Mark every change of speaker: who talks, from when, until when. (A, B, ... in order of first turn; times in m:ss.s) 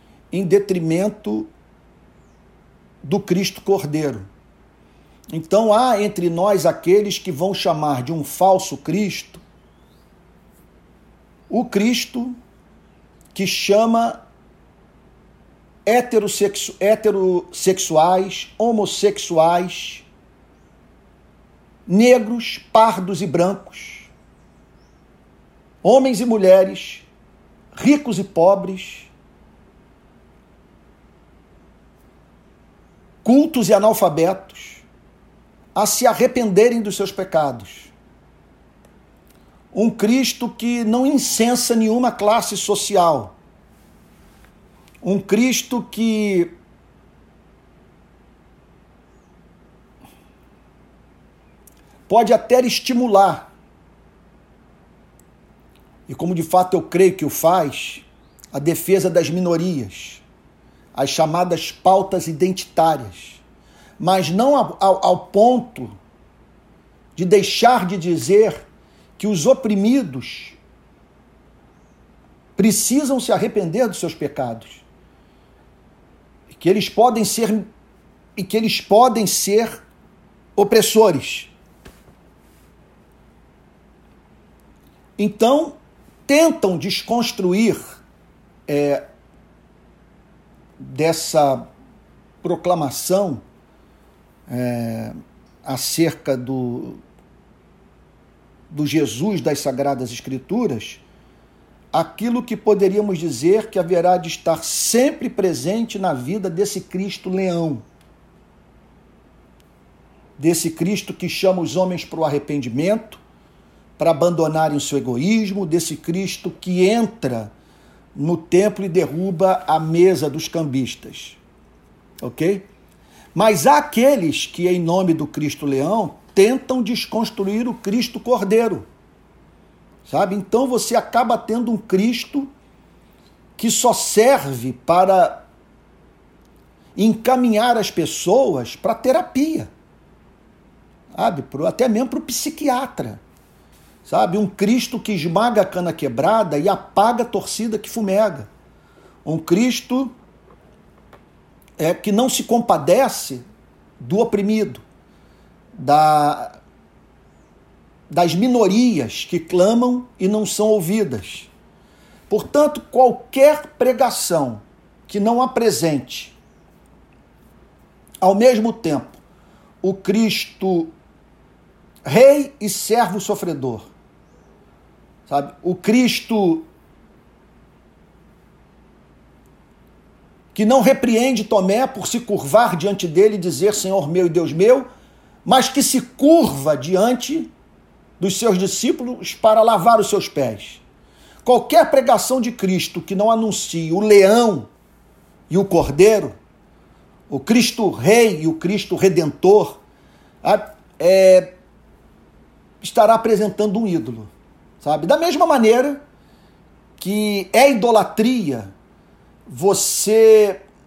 0:00.3-0:01.5 A
0:03.0-0:04.3 A
0:05.3-0:09.4 A
0:11.5-0:12.4 A
0:13.3-0:14.2 A
0:15.8-0:20.0 A
0:21.9-0:24.1 A
0:25.8-0:27.0 A
0:27.7-0:29.1 A
0:33.2-0:34.8 A
0:35.7-0:37.9 A
0:39.7-0:43.3 A
0:45.0-0:46.5 A
0:52.1-0:53.5 A
0:56.1-1:00.2 A
1:00.9-1:03.4 A
1:04.0-1:05.9 A
1:07.2-1:08.6 A
1:09.2-1:10.6 A
1:12.6-1:14.8 A
1:16.5-1:17.7 A
1:18.4-1:19.8 A
1:20.6-1:21.5 A
1:25.2-1:25.7 A
1:26.3-1:28.0 A
1:28.7-1:29.0 A
1:30.8-1:31.7 A
1:32.4-1:33.4 A
1:34.5-1:37.0 A
1:38.7-1:41.0 A
1:41.9-1:47.8 A
1:50.4-1:53.2 A
1:54.0-1:57.5 A
1:58.1-2:01.4 A
2:02.2-2:02.7 A
2:03.3-2:08.8 A
2:10.0-2:12.5 A
2:13.6-2:15.4 A
2:17.0-2:19.7 A
2:21.1-2:23.2 A
2:24.0-2:28.5 A
2:29.2-2:30.1 A
2:31.8-2:33.4 A
2:34.0-2:34.8 A
2:35.7-2:36.5 A
2:38.1-2:41.5 A
2:42.3-2:46.4 A
2:48.2-2:49.2 A
2:49.8-2:50.9 A
2:52.0-2:53.9 A
2:55.3-2:56.6 A
3:00.5-3:04.9 A
3:05.4-3:07.5 A
3:08.2-3:10.8 A
3:11.4-3:14.7 A
3:15.5-3:16.3 A
3:17.3-3:19.8 A
3:20.4-3:21.5 A
3:22.8-3:24.3 A
3:24.8-3:26.0 A
3:27.0-3:28.7 A
3:29.5-3:30.6 A